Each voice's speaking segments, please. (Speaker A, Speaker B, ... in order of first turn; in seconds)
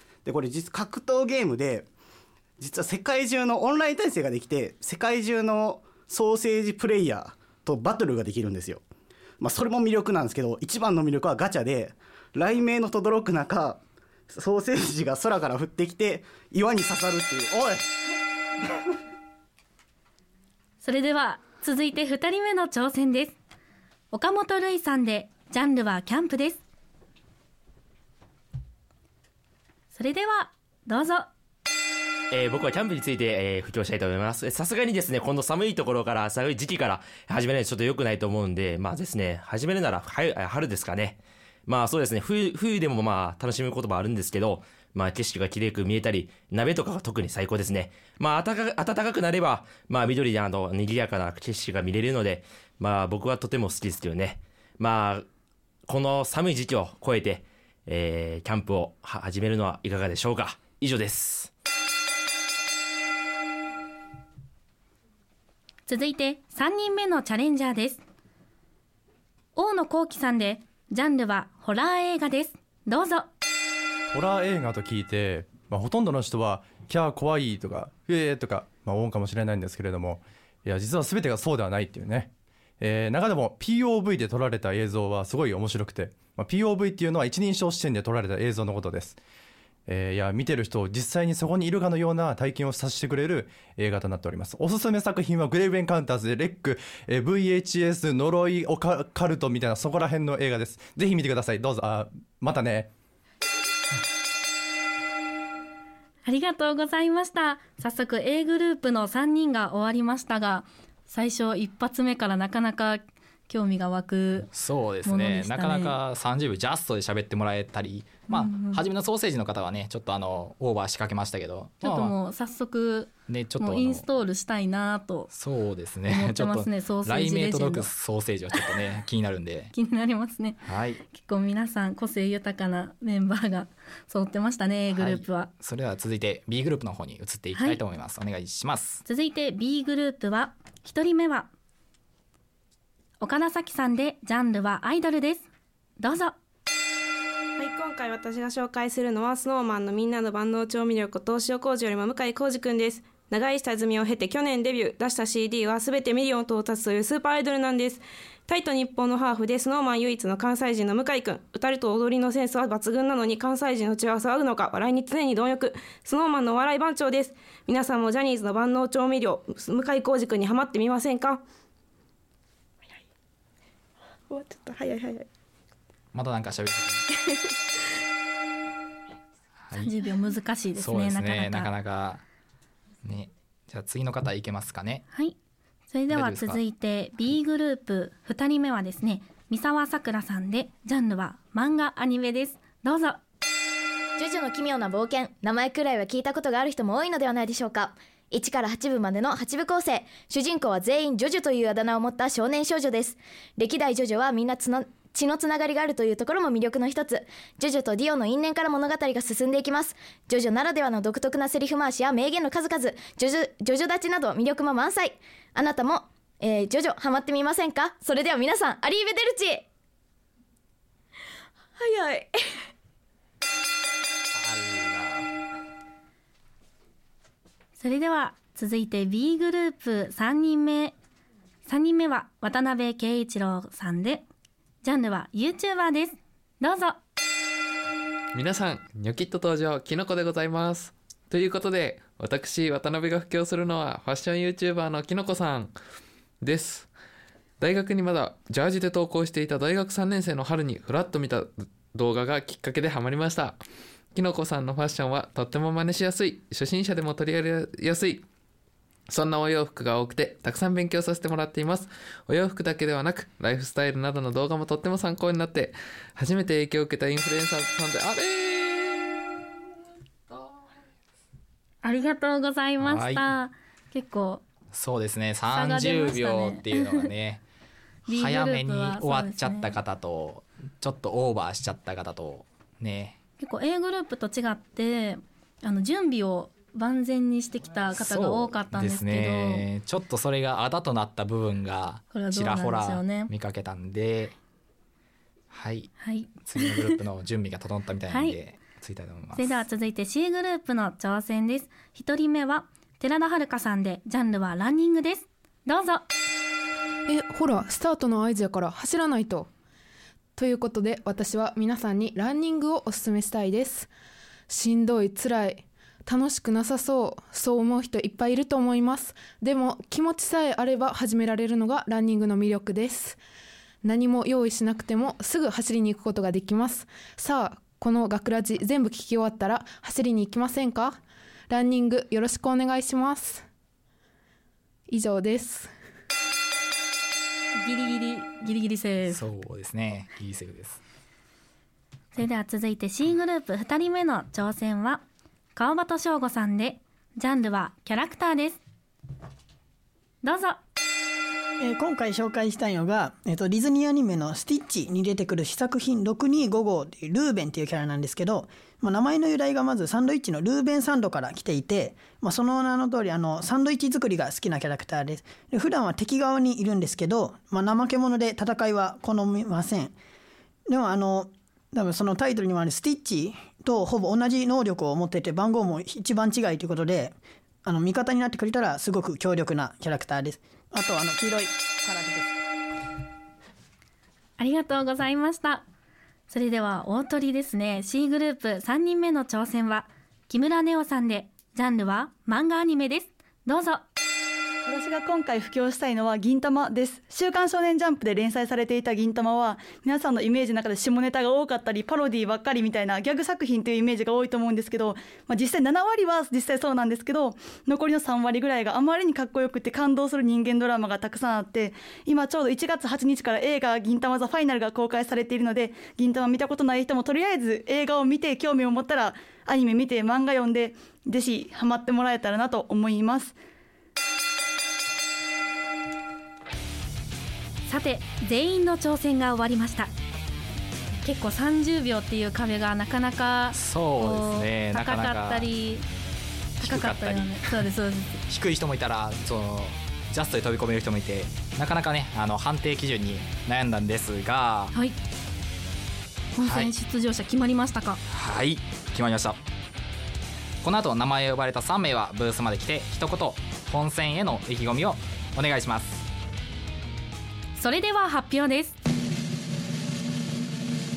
Speaker A: 0.2-1.9, 2.6-8.8, 9.4-17.9
Speaker B: 20.8-23.4, 24.1-26.6, 29.9-31.3, 65.9-68.0, 69.5-73.3, 106.2-114.5, 115.0-115.9, 118.3-118.8, 121.8-125.3, 126.1-127.9, 129.7-135.5, 137.5-137.8, 139.1-141.5, 143.2-145.5, 146.0-146.3, 179.8-181.7, 185.9-193.2, 227.8-230.9, 231.7-234.2, 234.8-237.0, 271.8-274.4, 275.5-277.1, 278.1-279.7, 283.4-289.6, 292.1-293.3, 296.0-297.0, 298.1-298.4, 299.4-306.0, 337.6-339.2, 342.1-345.0, 345.6-348.6, 350.2-350.6, 384.4-385.6, 386.3-393.8, 427.7-429.9, 431.0-435.9, 436.6-438.2, 446.4-448.0, 457.6-458.8
Speaker C: 32.3-55.3, 55.9-61.5
Speaker D: 74.1-89.2, 89.9-102.9
Speaker E: 114.5-122.2, 123.3-124.0, 125.3-129.7, 130.7-131.0, 134.9-139.0, 176.1-177.0, 179.7-179.9, 180.8-182.2, 183.0-185.0, 186.1-186.6, 224.4-225.3, 272.8-273.3, 274.7-277.4, 278.1-283.2, 287.9-294.3, 295.5-295.9, 296.4-299.6, 339.1-340.8, 433.5-435.5, 436.6-437.3, 438.3-444.7, 446.4-446.7, 448.1-449.4, 450.6-456.1
Speaker F: 147.6-171.4, 174.3-175.2
Speaker G: 194.2-219.7, 221.8-222.3
Speaker H: 238.3-245.7, 246.4-246.9, 247.6-253.6, 254.1-258.2, 259.1-269.2
Speaker I: 307.1-309.5, 310.4-313.9, 314.5-323.2, 323.8-331.0, 331.5-333.4, 334.9-335.7
Speaker J: 351.6-369.9, 370.7-382.4
Speaker K: 394.6-423.4